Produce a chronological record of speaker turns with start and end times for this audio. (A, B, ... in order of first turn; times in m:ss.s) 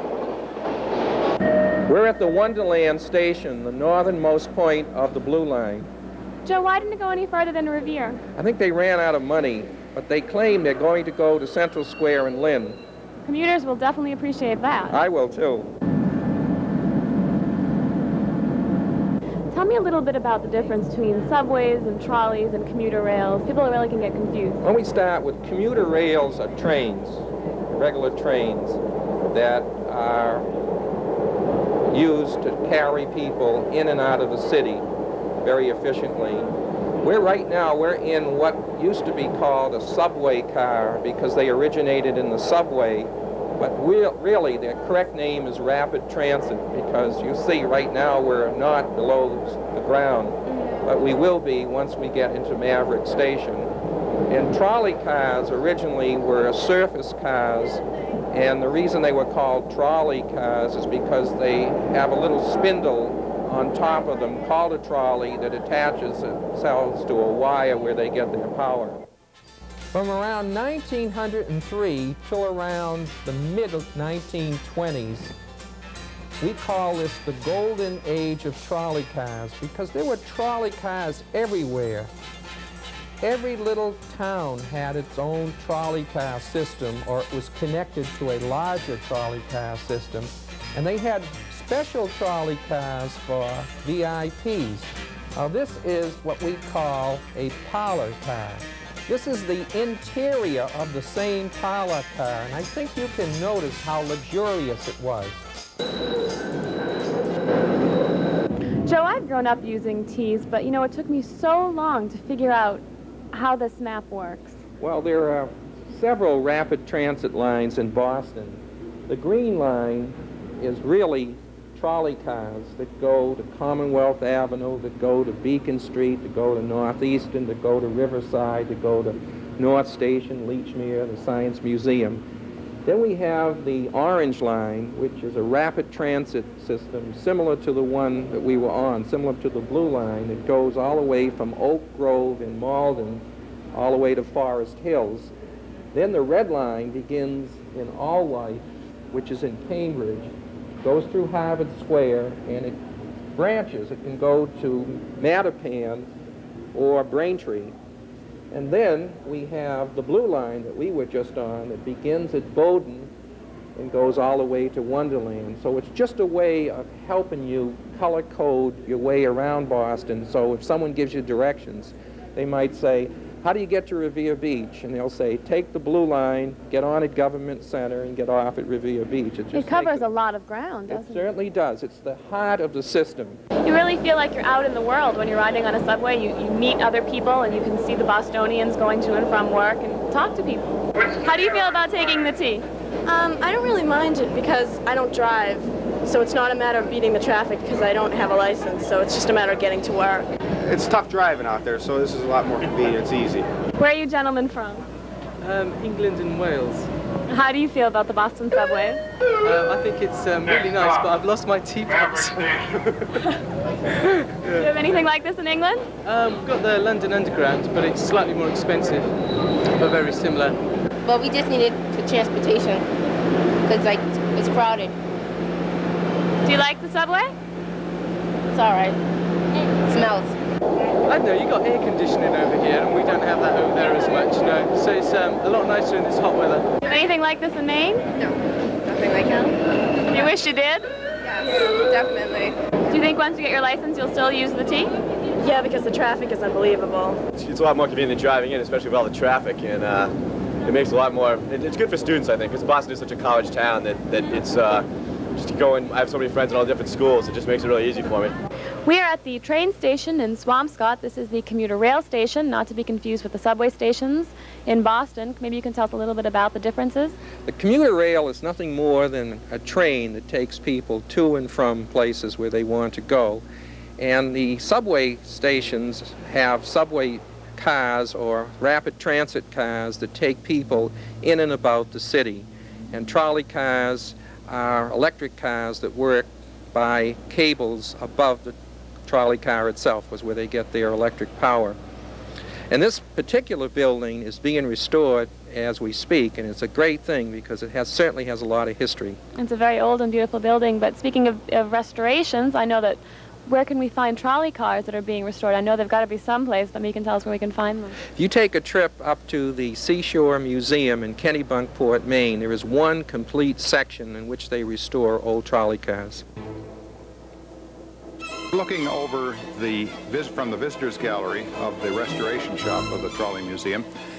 0:01.9-0:05.9 A
0:06.4-0:08.2 B
0:08.4-0:12.8 A
0:13.2-0:15.0 B
0:14.9-0:15.7 A
0:19.5-0:24.6 B
0:24.6-0:30.5 A
0:31.9-0:34.8 A
0:35.4-0:36.5 A
0:37.0-0:53.7 A
0:54.3-1:09.0 A
1:09.9-1:15.3 A
1:16.4-1:22.1 A
1:23.2-1:45.4 A
1:48.8-1:54.6 B
1:54.8-2:12.2 A
2:12.8-2:25.3 A
2:25.9-2:30.3 A
2:30.8-2:32.8 A
2:33.4-2:36.1 A
2:36.7-2:37.7 A
2:38.5-2:43.1 A
2:43.8-3:00.0 A
2:59.5-3:01.2 B
3:00.9-3:03.4 A
3:03.6-3:12.6 B
3:13.0-3:20.3 C
3:20.7-3:23.4 D
3:23.8-3:24.8 B
3:25.4-3:26.9 E
3:27.3-3:29.0 B
3:29.4-3:33.1 E
3:34.4-3:34.7 E
3:34.5-3:35.9 B
3:36.0-3:39.1 E
3:39.8-3:40.6 E
3:41.0-3:42.8 F
3:43.6-3:44.9 F
3:46.4-3:47.3 B
3:48.5-3:49.0 F
3:49.8-3:50.3 F
3:51.0-3:56.7 E
3:56.8-3:58.1 B
3:58.8-3:59.6 C
4:00.1-4:00.9 B
4:01.3-4:02.6 C
4:02.9-4:04.9 B
4:05.4-4:07.2 C
4:07.3-4:10.1 D
4:10.6-4:18.4 D
4:18.8-4:27.2 B
4:27.4-4:33.4 A
4:34.0-4:48.5 A
4:49.1-4:51.8 A
4:52.7-4:59.2 A
4:59.4-5:08.0 B
5:08.2-5:16.2 A
5:18.5-5:23.9 G